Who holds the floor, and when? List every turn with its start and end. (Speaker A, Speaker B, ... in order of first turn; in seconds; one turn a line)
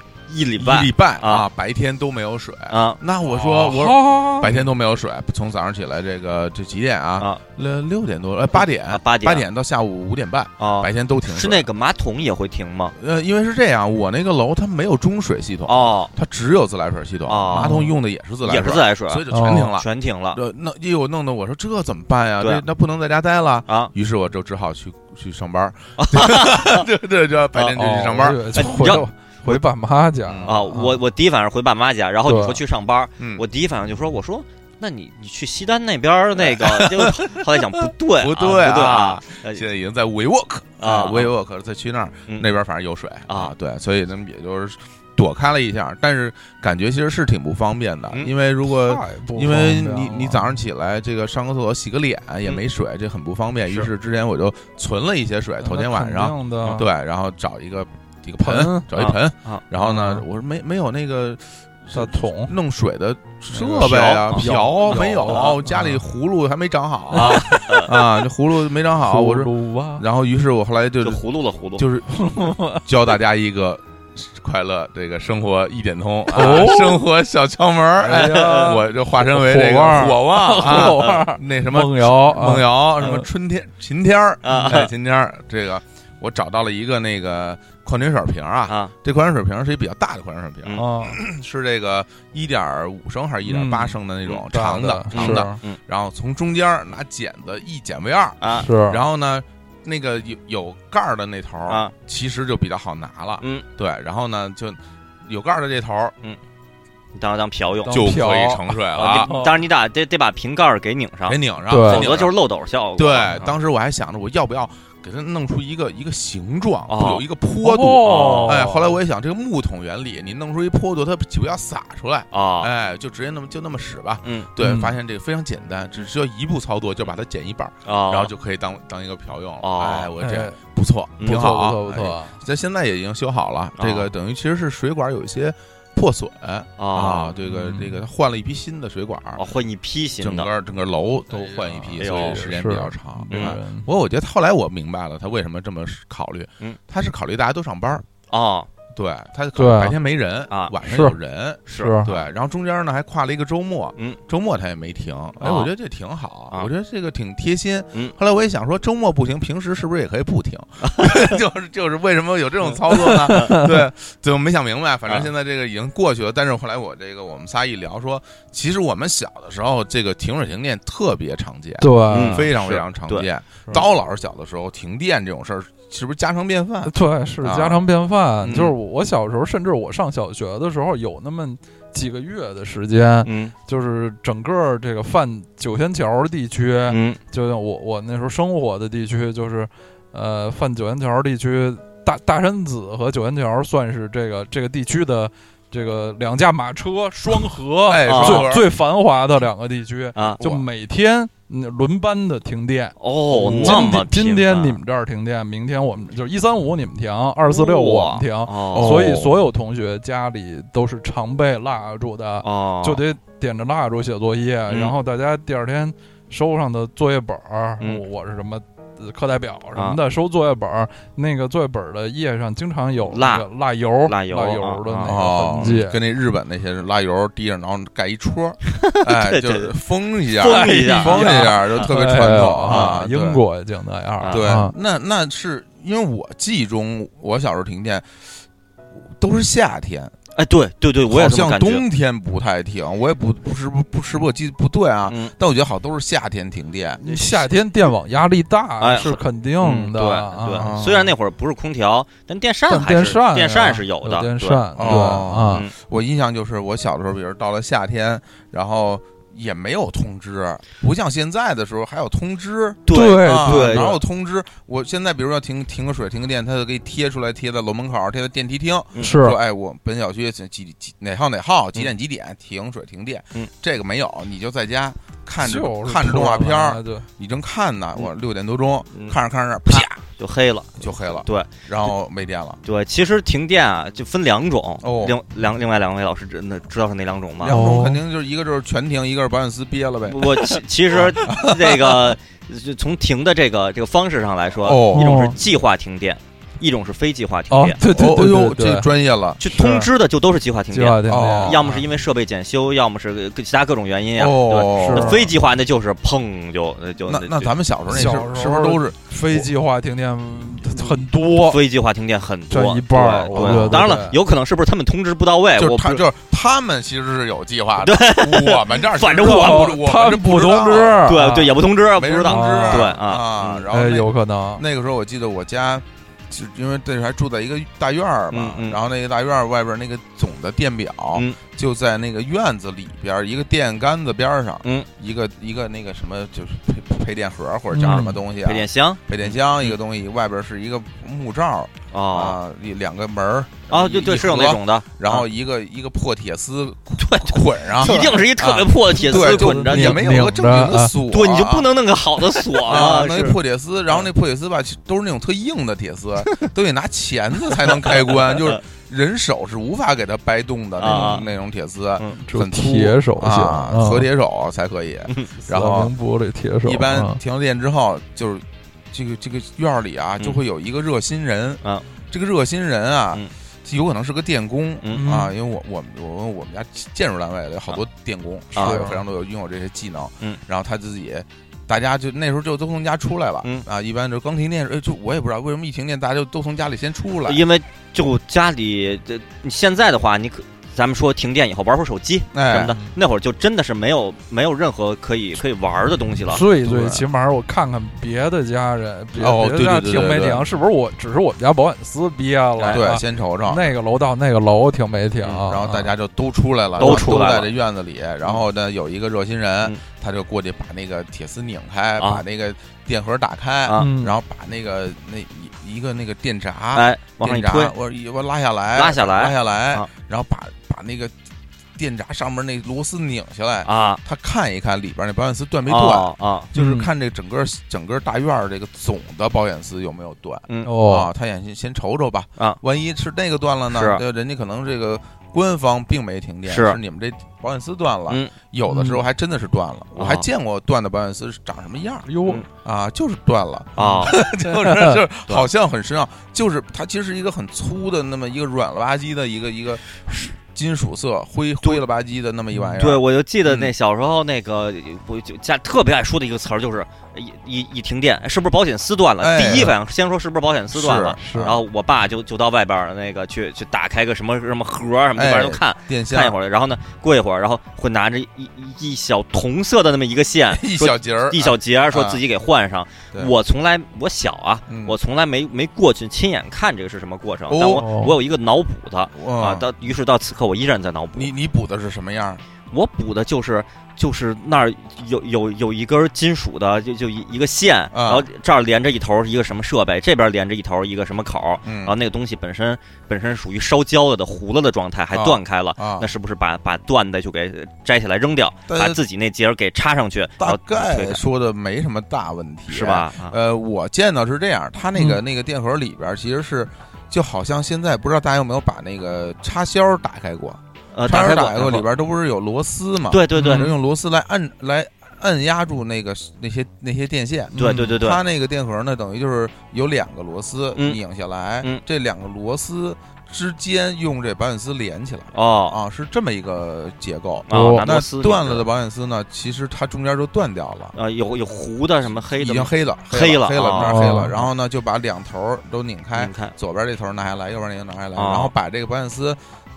Speaker A: 0.3-1.5
Speaker B: 0.6-11.7
Speaker A: 2.7-3.0
Speaker C: 3.3-4.6
Speaker A: 8.6-9.4
Speaker A: 10.6-12.9
Speaker B: 12.9-29.6
Speaker A: 15.7-16.1
Speaker A: 17.3-17.8
Speaker C: 17.5-17.9
Speaker A: 18.4-20.4
Speaker C: 19.3-19.7
Speaker A: 26.0-26.9
Speaker C: 27.7-31.0
Speaker A: 28.5-29.0
Speaker B: 30.2-30.6
Speaker A: 30.4-39.6
Speaker C: 32.2-32.6
Speaker B: 33.2-33.4
Speaker B: 36.4-71.2
Speaker A: 40.8-41.3
Speaker C: 48.7-50.5
Speaker C: 55.6-56.8
Speaker C: 58.4-58.9
Speaker A: 58.9-59.6
Speaker C: 59.8-60.2
Speaker C: 61.9-62.5
Speaker C: 63.5-66.0
Speaker A: 63.7-64.4
Speaker A: 65.2-65.5
Speaker A: 67.1-67.9
Speaker C: 67.1-67.6
Speaker C: 68.9-70.0
Speaker A: 71.0-71.9
Speaker B: 71.8-106.1
Speaker C: 72.1-72.8
Speaker C: 76.3-77.0
Speaker C: 78.0-83.3
Speaker A: 78.2-78.7
Speaker A: 84.4-84.9
Speaker A: 88.7-88.9
Speaker C: 90.8-91.2
Speaker C: 93.4-94.0
Speaker C: 94.5-95.6
Speaker A: 95.1-95.8
Speaker A: 98.4-98.7
Speaker C: 98.5-99.0
Speaker A: 101.7-101.9
Speaker A: 107.1-108.2
Speaker C: 107.8-109.6
Speaker B: 107.9-109.3
Speaker A: 108.9-113.4
Speaker B: 111.3-112.3
Speaker C: 111.7-112.1
Speaker B: 113.0-139.4
Speaker A: 116.9-117.2
Speaker C: 117.6-119.0
Speaker A: 118.0-118.6
Speaker A: 122.3-122.7
Speaker A: 124.2-124.5
Speaker C: 124.6-124.9
Speaker A: 127.8-128.3
Speaker A: 129.6-130.1
Speaker C: 130.2-130.6
Speaker A: 131.2-131.4
Speaker C: 131.2-132.4
Speaker A: 133.8-134.1
Speaker A: 136.8-137.3
Speaker C: 137.4-138.0
Speaker A: 139.3-140.5
Speaker B: 140.2-148.0
Speaker C: 141.3-143.9
Speaker A: 142.0-142.4
Speaker A: 143.3-143.6
Speaker A: 148.3-148.7
Speaker B: 148.9-177.8
Speaker C: 149.6-149.9
Speaker A: 150.5-150.7
Speaker C: 150.8-151.2
Speaker A: 151.7-152.1
Speaker C: 151.7-152.1
Speaker A: 155.4-155.7
Speaker A: 160.8-161.2
Speaker A: 163.0-163.6
Speaker C: 163.1-163.8
Speaker C: 171.8-172.5
Speaker A: 172.1-173.2
Speaker C: 176.8-226.0
Speaker B: 178.4-178.8
Speaker A: 183.2-183.5
Speaker A: 186.9-187.2
Speaker B: 197.9-198.7
Speaker A: 198.0-198.5
Speaker A: 200.1-200.6
Speaker A: 203.0-204.8
Speaker B: 203.3-204.0
Speaker A: 207.4-209.1
Speaker B: 208.7-209.4
Speaker A: 212.4-213.0
Speaker A: 214.7-214.9
Speaker A: 223.1-223.5
Speaker A: 224.0-225.8
Speaker B: 225.0-233.4
Speaker A: 228.7-229.7
Speaker A: 230.4-231.8
Speaker C: 230.4-234.7
Speaker A: 232.6-233.0
Speaker A: 234.2-234.4
Speaker B: 234.3-238.3
Speaker B: 239.2-240.1
Speaker A: 240.3-241.8
Speaker B: 241.1-247.0
Speaker A: 245.1-245.3
Speaker C: 247.0-250.7
Speaker A: 247.0-247.5
Speaker A: 248.8-255.7
Speaker B: 250.5-251.1
Speaker C: 252.7-255.6
Speaker B: 254.7-280.0
Speaker A: 262.9-263.9
Speaker C: 262.9-264.0
Speaker C: 269.0-269.4
Speaker C: 275.4-277.1
Speaker A: 279.7-280.7
Speaker B: 280.8-282.6
Speaker A: 281.2-281.5
Speaker A: 282.6-287.6
Speaker B: 284.8-285.2
Speaker B: 287.4-292.1
Speaker C: 287.4-288.0
Speaker A: 290.0-297.8
Speaker B: 294.6-295.2
Speaker C: 294.9-295.4
Speaker C: 297.5-298.9
Speaker B: 297.9-299.4
Speaker A: 299.4-307.5
Speaker C: 299.4-299.9
Speaker C: 300.7-301.8
Speaker B: 301.0-301.6
Speaker B: 304.1-305.2
Speaker C: 304.7-305.3
Speaker B: 307.1-309.5
Speaker C: 307.9-311.6
Speaker A: 310.8-316.0
Speaker C: 312.5-314.1
Speaker B: 313.3-313.9
Speaker B: 315.6-321.1
Speaker A: 317.8-319.7
Speaker C: 319.2-321.6
Speaker A: 321.0-323.6
Speaker B: 321.9-351.7
Speaker C: 322.2-322.9
Speaker C: 323.7-324.6
Speaker A: 328.3-328.8
Speaker C: 337.7-338.2
Speaker A: 337.8-339.8
Speaker A: 341.9-342.4
Speaker A: 343.7-345.2
Speaker A: 347.0-350.3
Speaker C: 348.9-350.9
Speaker A: 351.1-353.4
Speaker B: 352.6-365.9
Speaker A: 357.4-358.6
Speaker A: 360.8-361.2
Speaker C: 360.9-361.2
Speaker C: 362.2-364.1
Speaker C: 365.5-367.2
Speaker B: 366.6-387.4
Speaker C: 374.9-375.3
Speaker A: 378.5-378.9
Speaker C: 378.5-379.0
Speaker A: 387.3-396.4
Speaker B: 392.3-392.8
Speaker C: 396.3-405.9
Speaker B: 396.6-397.0
Speaker B: 399.1-400.5
Speaker A: 402.6-402.8
Speaker B: 402.7-403.7
Speaker B: 405.4-421.1
Speaker A: 406.8-407.5
Speaker C: 413.7-414.1
Speaker A: 416.7-417.7
Speaker A: 418.7-419.9
Speaker B: 421.8-453.7
Speaker A: 423.6-424.0
Speaker A: 425.7-426.5
Speaker C: 426.5-426.9
Speaker C: 430.6-431.1
Speaker A: 433.7-434.0
Speaker A: 436.4-436.8
Speaker C: 438.7-439.0
Speaker A: 439.9-440.3
Speaker C: 442.1-442.4
Speaker A: 443.8-444.2
Speaker C: 444.5-445.0
Speaker A: 452.8-481.3
Speaker B: 459.2-459.8
Speaker B: 460.7-461.6
Speaker C: 461.2-461.5
Speaker B: 465.1-466.4
Speaker B: 470.5-472.2
Speaker B: 474.7-475.0
Speaker B: 477.5-477.8
Speaker C: 477.6-478.1
Speaker B: 479.1-479.7
Speaker B: 481.1-482.4
Speaker A: 482.7-501.2
Speaker B: 487.9-488.3
Speaker B: 491.6-491.9
Speaker B: 495.1-496.1
Speaker B: 498.7-499.0
Speaker B: 500.4-530.9
Speaker A: 502.7-503.4
Speaker A: 510.9-511.9
Speaker A: 513.1-513.7
Speaker C: 513.3-513.7
Speaker C: 517.5-518.0
Speaker A: 517.5-518.2
Speaker A: 525.3-525.8
Speaker A: 527.5-528.6
Speaker C: 527.5-527.9
Speaker A: 530.9-534.0
Speaker B: 532.3-539.4
Speaker C: 533.8-534.4
Speaker A: 536.1-536.5
Speaker A: 538.1-538.5